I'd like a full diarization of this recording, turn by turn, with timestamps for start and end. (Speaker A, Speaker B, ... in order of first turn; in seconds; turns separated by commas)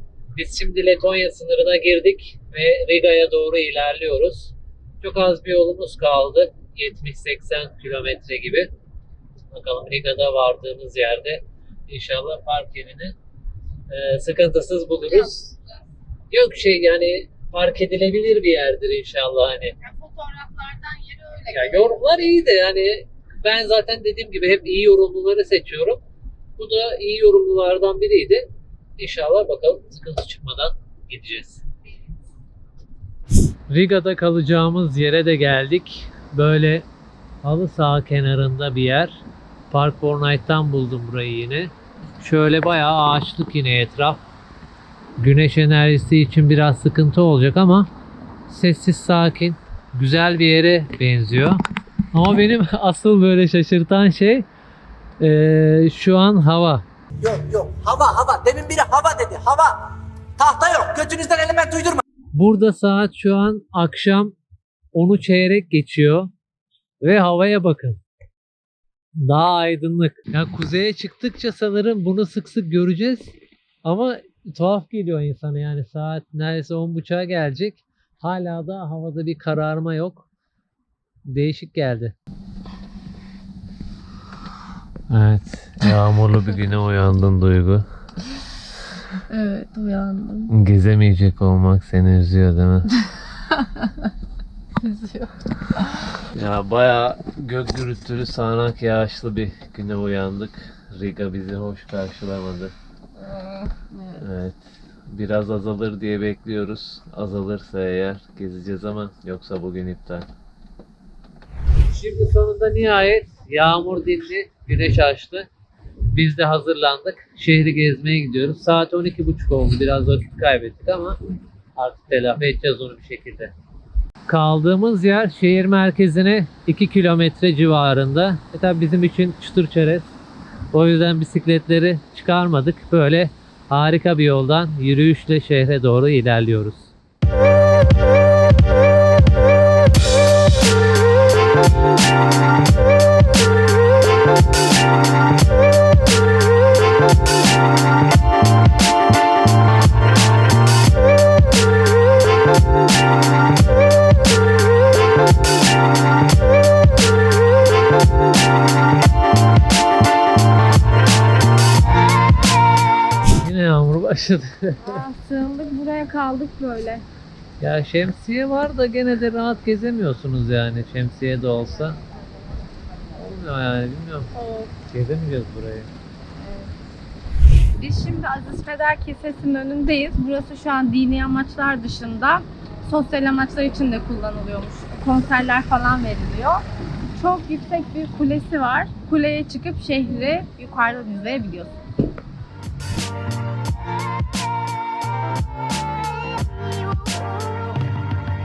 Speaker A: 0.3-8.7, Speaker A: 9.5-13.1, Speaker A: 13.9-15.6, Speaker A: 16.3-19.8, Speaker B: 19.8-21.9, Speaker A: 21.5-26.0, Speaker A: 26.6-28.4, Speaker A: 29.0-31.6, Speaker A: 33.7-36.9, Speaker A: 37.4-39.2, Speaker A: 39.7-44.2, Speaker A: 45.2-47.9, Speaker A: 48.5-51.6, Speaker A: 52.1-54.5, Speaker A: 55.2-56.8, Speaker C: 57.4-58.4, Speaker C: 59.6-59.9, Speaker C: 60.6-62.0, Speaker A: 62.3-64.3, Speaker A: 64.9-66.3, Speaker A: 67.0-68.0, Speaker A: 69.2-73.3, Speaker A: 73.8-80.2, Speaker A: 81.3-82.1, Speaker A: 85.1-87.8, Speaker B: 89.3-90.5, Speaker A: 90.5-92.9, Speaker B: 93.7-93.9, Speaker B: 94.8-95.3, Speaker A: 96.3-102.7, Speaker B: 103.3-104.0, Speaker A: 104.2-110.3, Speaker A: 111.9-115.5, Speaker A: 116.1-121.2, Speaker A: 121.8-123.5, Speaker A: 124.3-130.1, Speaker A: 130.7-136.9, Speaker A: 163.3-164.9, Speaker B: 164.8-167.0, Speaker A: 167.6-172.0, Speaker A: 173.1-174.3, Speaker B: 174.3-174.7, Speaker A: 174.9-175.9, Speaker B: 176.4-176.7, Speaker B: 177.8-186.6, Speaker B: 187.2-191.7